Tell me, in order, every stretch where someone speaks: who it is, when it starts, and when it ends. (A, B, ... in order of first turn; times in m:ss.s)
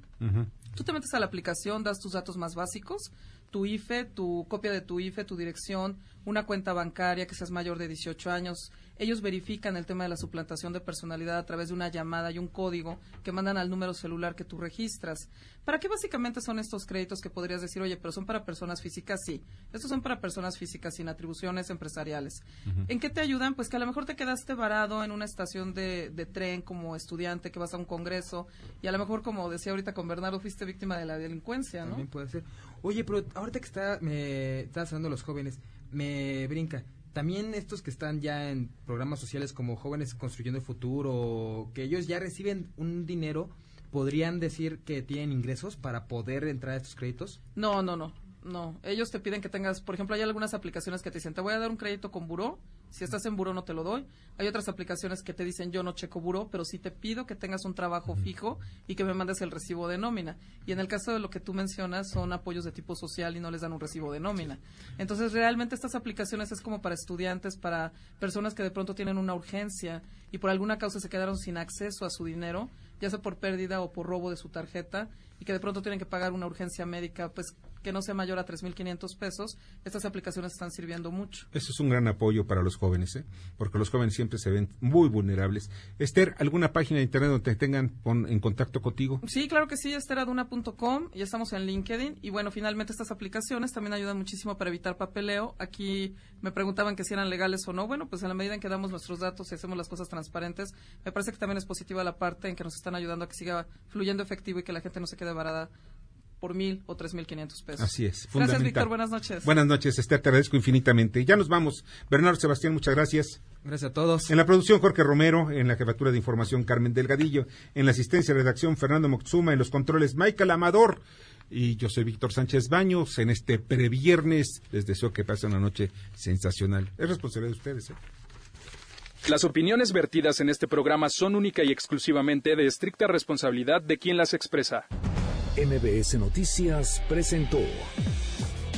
0:00.2-0:00.5 A
0:00.7-0:32.1 B
0:31.8-0:47.4 C
0:47.6-1:21.5 B
1:21.5-1:29.2 A
1:29.2-1:45.7 B
1:46.4-1:49.5 B
1:47.8-1:53.4 A
1:53.6-1:54.3 C
1:54.3-2:08.0 A
2:09.2-2:14.8 D
2:15.6-2:17.9 E